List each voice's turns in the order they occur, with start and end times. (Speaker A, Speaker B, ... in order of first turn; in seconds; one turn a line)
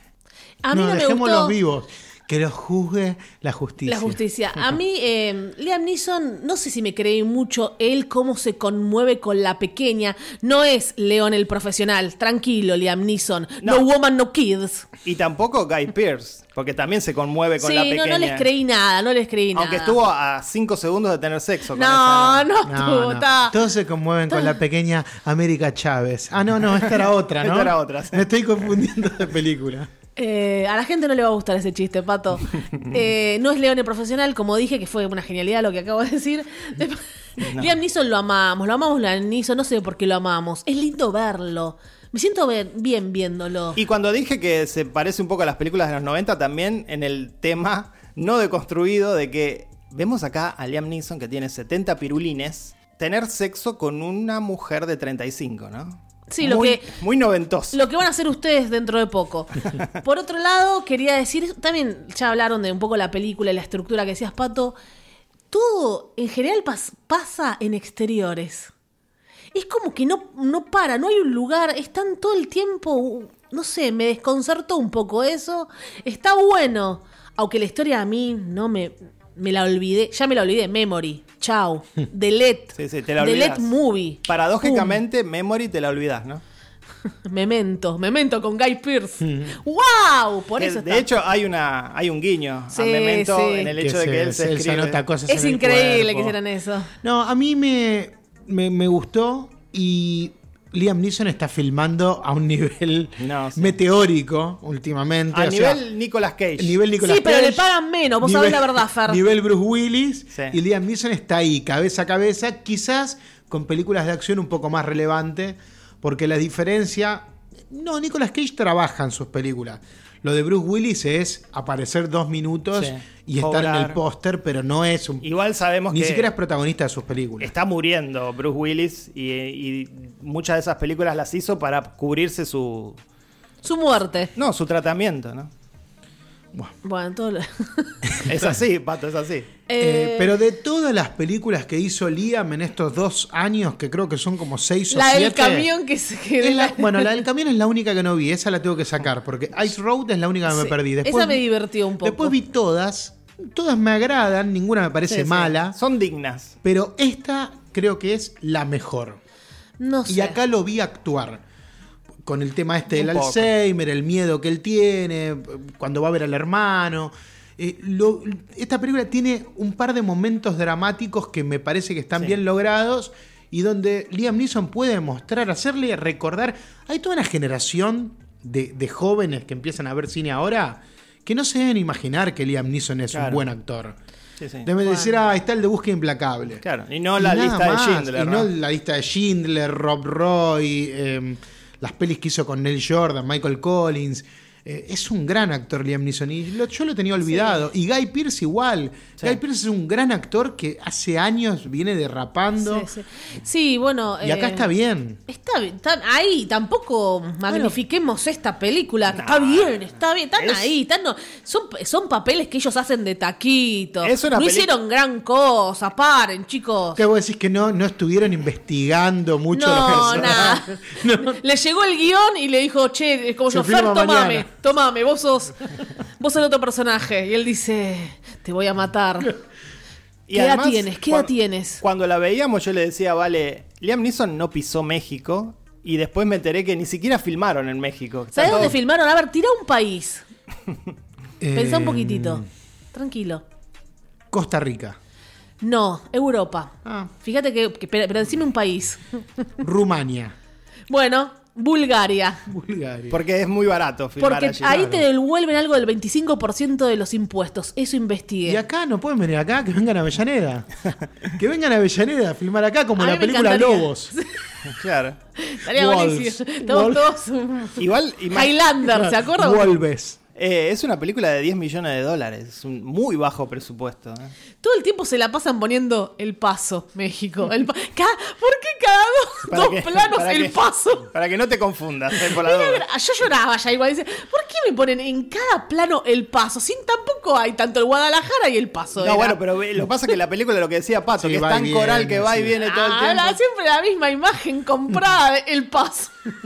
Speaker A: 0.6-1.6
Speaker B: 0.7-4.2
Speaker A: 3.9-14.9
Speaker C: 13.6-13.9
Speaker C: 15.0-18.5
Speaker A: 17.6-20.0
Speaker C: 19.5-22.5
Speaker A: 21.7-23.6
Speaker B: 22.6-29.9
Speaker C: 27.4-28.2
Speaker A: 30.1-43.8
Speaker C: 37.4-37.7
Speaker C: 43.8-57.8
Speaker A: 56.3-56.9
Speaker A: 57.7-64.8
Speaker A: 65.5-68.7
Speaker A: 69.5-85.0
Speaker C: 82.7-83.7
Speaker C: 84.2-86.4
Speaker A: 87.2-91.0
Speaker B: 89.2-89.5
Speaker C: 90.6-95.0
Speaker A: 92.7-93.7
Speaker B: 93.8-96.3
Speaker A: 95.3-96.9
Speaker B: 97.0-105.8
Speaker C: 103.2-103.8
Speaker C: 105.3-106.8
Speaker B: 106.6-107.7
Speaker A: 107.0-109.2
Speaker B: 108.2-125.2
Speaker C: 122.7-124.0
Speaker C: 125.2-126.3
Speaker B: 125.9-127.5
Speaker C: 127.4-133.0
Speaker A: 133.6-134.3
Speaker C: 134.3-135.5
Speaker A: 136.8-138.1
Speaker B: 138.2-138.6
Speaker C: 138.2-139.5
Speaker A: 139.7-140.3
Speaker B: 139.8-145.7
Speaker A: 144.9-147.2
Speaker B: 146.4-151.4
Speaker A: 150.5-152.3
Speaker B: 152.0-155.8
Speaker C: 155.1-156.5
Speaker B: 156.6-159.2
Speaker A: 159.8-160.4
Speaker B: 160.1-161.4
Speaker B: 162.2-183.9
Speaker C: 162.9-163.5
Speaker C: 183.1-183.4
Speaker C: 184.4-184.7
Speaker B: 184.6-186.6
Speaker A: 184.8-185.1
Speaker C: 186.6-188.5
Speaker B: 187.2-202.9
Speaker A: 197.2-197.6
Speaker A: 202.6-204.7
Speaker B: 204.2-205.2
Speaker A: 205.3-217.0
Speaker B: 207.5-207.7
Speaker C: 209.1-210.7
Speaker C: 214.0-214.7
Speaker B: 216.9-221.4
Speaker A: 219.5-225.7
Speaker C: 219.8-220.6
Speaker B: 223.5-224.5
Speaker A: 226.2-229.3
Speaker C: 230.3-238.8
Speaker A: 230.3-231.8
Speaker A: 238.3-240.2
Speaker B: 241.4-242.4
Speaker A: 241.5-243.4
Speaker B: 244.3-245.0
Speaker A: 245.6-249.2
Speaker B: 246.8-247.1
Speaker B: 249.6-250.3
Speaker A: 250.9-252.4
Speaker B: 252.5-253.2
Speaker C: 253.1-254.8
Speaker A: 254.2-258.6
Speaker B: 254.6-255.0
Speaker B: 258.4-260.7
Speaker B: 261.2-264.1
Speaker A: 263.0-264.4
Speaker C: 264.6-265.2
Speaker A: 265.4-269.8
Speaker B: 265.7-267.1
Speaker C: 267.8-268.6
Speaker B: 268.9-270.2
Speaker C: 270.4-274.3
Speaker A: 274.6-281.1
Speaker C: 279.4-282.8
Speaker A: 282.2-289.4
Speaker C: 289.0-293.4
Speaker B: 291.2-292.5
Speaker A: 292.6-296.3